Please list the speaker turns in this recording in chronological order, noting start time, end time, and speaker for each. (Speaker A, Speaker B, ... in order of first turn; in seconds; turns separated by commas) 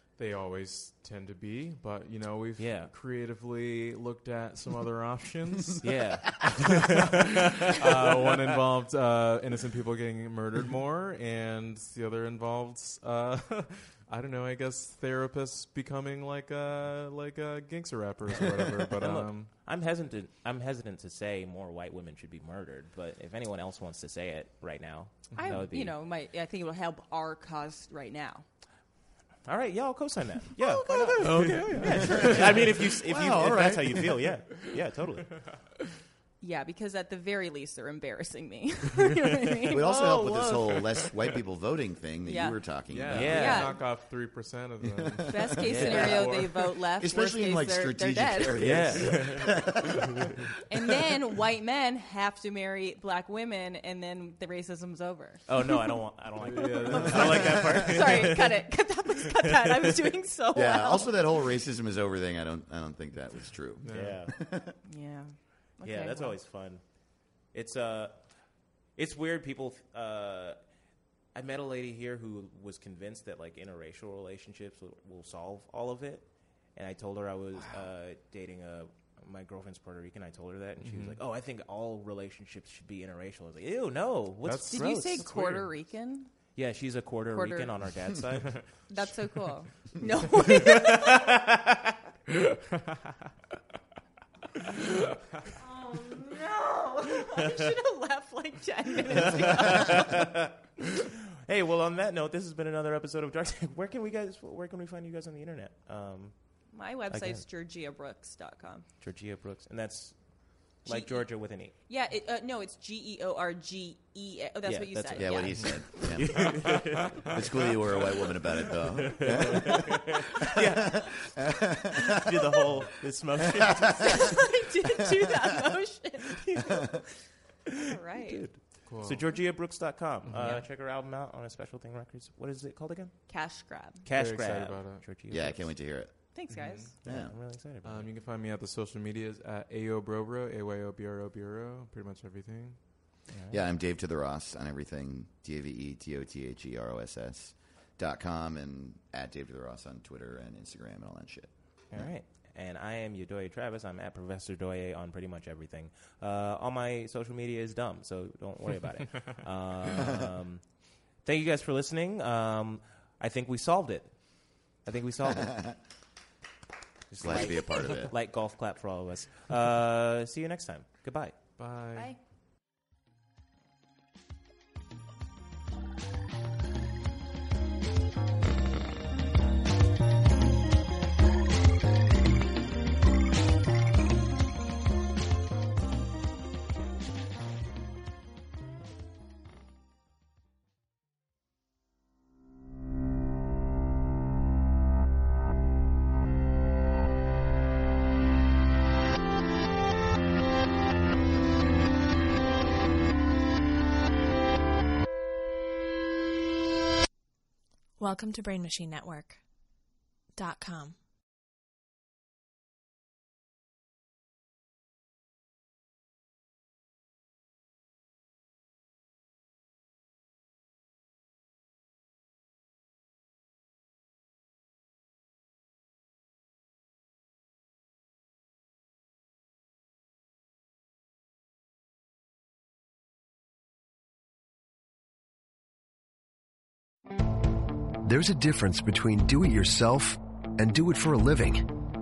Speaker A: 0.1-19.5, Speaker B: 2.6-2.9, Speaker B: 5.8-7.9, Speaker B: 19.0-25.9, Speaker C: 25.3-28.4, Speaker B: 29.4-35.4, Speaker C: 30.6-32.3, Speaker A: 31.1-32.7, Speaker D: 31.9-34.1, Speaker C: 36.4-39.8, Speaker B: 39.7-41.1, Speaker D: 39.7-43.4, Speaker C: 42.2-42.6, Speaker A: 42.9-46.7, Speaker B: 43.1-43.8, Speaker C: 43.3-43.8, Speaker D: 44.8-45.9, Speaker C: 45.3-48.8, Speaker B: 45.6-46.3, Speaker D: 47.0-50.8, Speaker B: 48.6-49.5, Speaker C: 50.7-56.0, Speaker B: 55.5-60.1, Speaker A: 56.4-57.6, Speaker C: 56.6-61.2, Speaker D: 60.5-64.7, Speaker A: 63.8-64.2, Speaker B: 63.9-64.3, Speaker C: 64.8-66.4, Speaker B: 65.8-66.8, Speaker B: 67.5-68.2, Speaker B: 69.0-70.6, Speaker B: 71.3-85.2, Speaker A: 80.8-81.2, Speaker A: 84.4-85.7, Speaker C: 84.7-86.3, Speaker B: 86.5-88.6, Speaker C: 87.3-87.7, Speaker C: 88.9-91.4, Speaker B: 90.5-91.9, Speaker A: 92.3-92.7, Speaker C: 95.6-100.2, Speaker B: 99.1-106.3, Speaker C: 106.7-108.8, Speaker B: 107.1-107.4, Speaker B: 109.0-110.2, Speaker B: 110.7-111.7, Speaker C: 110.8-116.1, Speaker B: 114.7-118.0, Speaker D: 115.1-122.5, Speaker B: 118.9-121.3, Speaker B: 122.0-124.4, Speaker D: 123.5-124.2, Speaker C: 124.0-126.9, Speaker B: 127.7-133.2, Speaker C: 127.8-128.4, Speaker A: 128.8-129.2, Speaker A: 130.2-130.6, Speaker C: 133.3-134.1, Speaker B: 134.0-135.7, Speaker A: 134.1-135.0, Speaker D: 135.3-136.1, Speaker C: 136.3-136.9, Speaker A: 136.5-136.9, Speaker B: 137.0-138.1, Speaker D: 137.0-137.3, Speaker A: 137.8-142.8, Speaker B: 143.3-143.6, Speaker D: 143.5-152.1, Speaker B: 151.9-160.6, Speaker B: 161.2-164.1, Speaker B: 164.8-165.8, Speaker D: 165.3-165.7, Speaker B: 167.1-171.3, Speaker D: 167.2-168.1, Speaker A: 171.6-172.1, Speaker E: 208.0-209.4, Speaker E: 210.3-210.9, Speaker F: 238.0-241.7